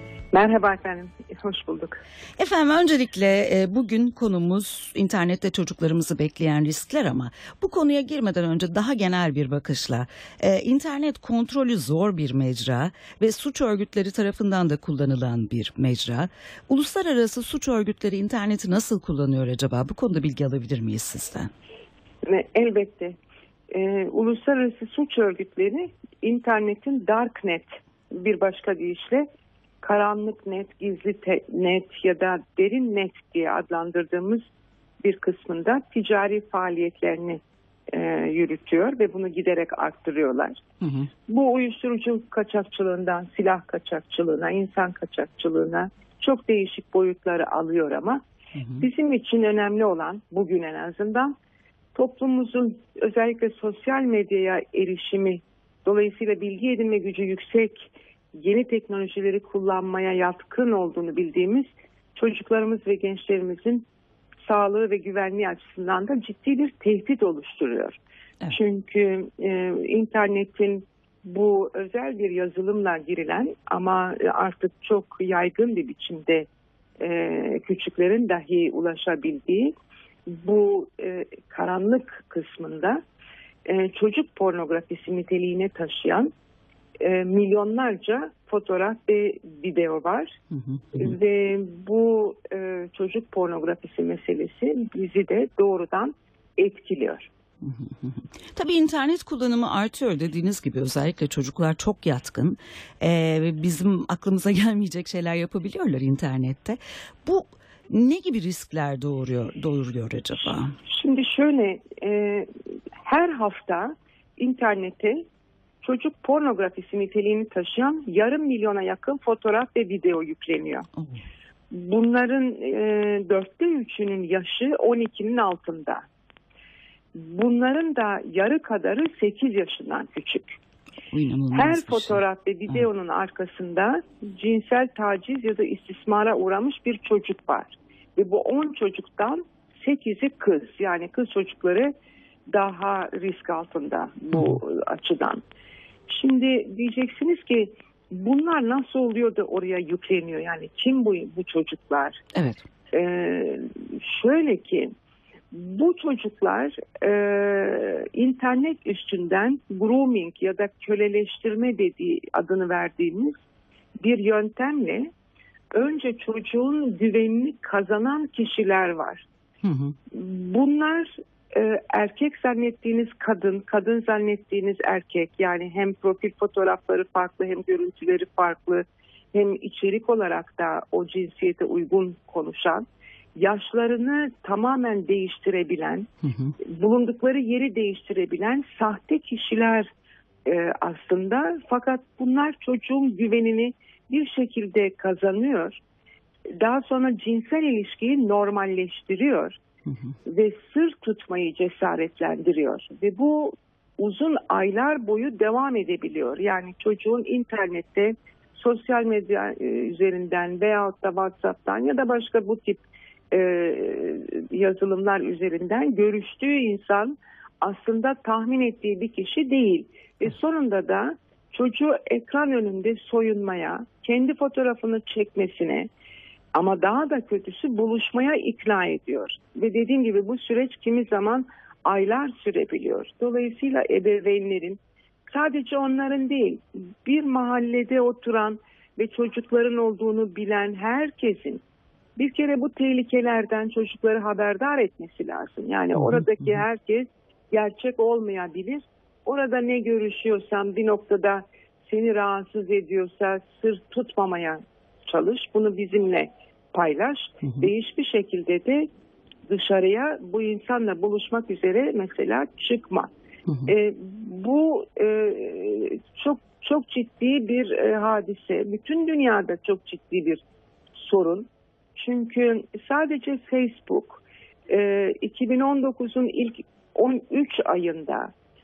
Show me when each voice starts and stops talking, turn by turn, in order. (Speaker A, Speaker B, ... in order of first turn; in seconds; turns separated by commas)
Speaker A: 0.3-2.0, Speaker B: 2.4-21.5, Speaker A: 22.2-23.2, Speaker A: 23.7-29.3, Speaker A: 29.8-34.5, Speaker A: 35.0-40.6, Speaker B: 40.8-41.1, Speaker A: 41.3-48.2, Speaker B: 48.6-48.9, Speaker A: 48.8-51.3, Speaker A: 52.0-63.9, Speaker A: 64.5-76.5, Speaker A: 77.0-79.7, Speaker A: 80.3-83.0, Speaker A: 83.7-86.3, Speaker A: 87.0-90.4, Speaker B: 90.5-91.1, Speaker A: 90.9-97.3, Speaker B: 97.6-110.8, Speaker A: 110.9-112.5, Speaker A: 113.0-115.2, Speaker A: 115.8-120.9, Speaker B: 121.0-121.2, Speaker A: 121.7-126.0, Speaker A: 127.2-130.6, Speaker B: 131.1-132.8, Speaker A: 131.5-141.9, Speaker A: 142.5-145.4, Speaker B: 144.3-144.6, Speaker A: 146.1-152.2, Speaker B: 152.3-152.6, Speaker A: 152.9-154.9, Speaker A: 155.5-163.4, Speaker A: 164.0-165.1, Speaker A: 165.7-169.3, Speaker B: 169.6-169.9, Speaker A: 170.1-182.8, Speaker A: 183.4-186.1, Speaker B: 186.2-186.6, Speaker A: 186.6-189.9, Speaker A: 190.4-195.8, Speaker A: 196.5-199.6, Speaker A: 200.3-225.9, Speaker A: 226.5-241.6, Speaker A: 242.2-258.9, Speaker B: 245.9-246.6, Speaker A: 259.5-263.1, Speaker B: 263.5-263.7, Speaker A: 263.7-270.4, Speaker A: 271.0-278.3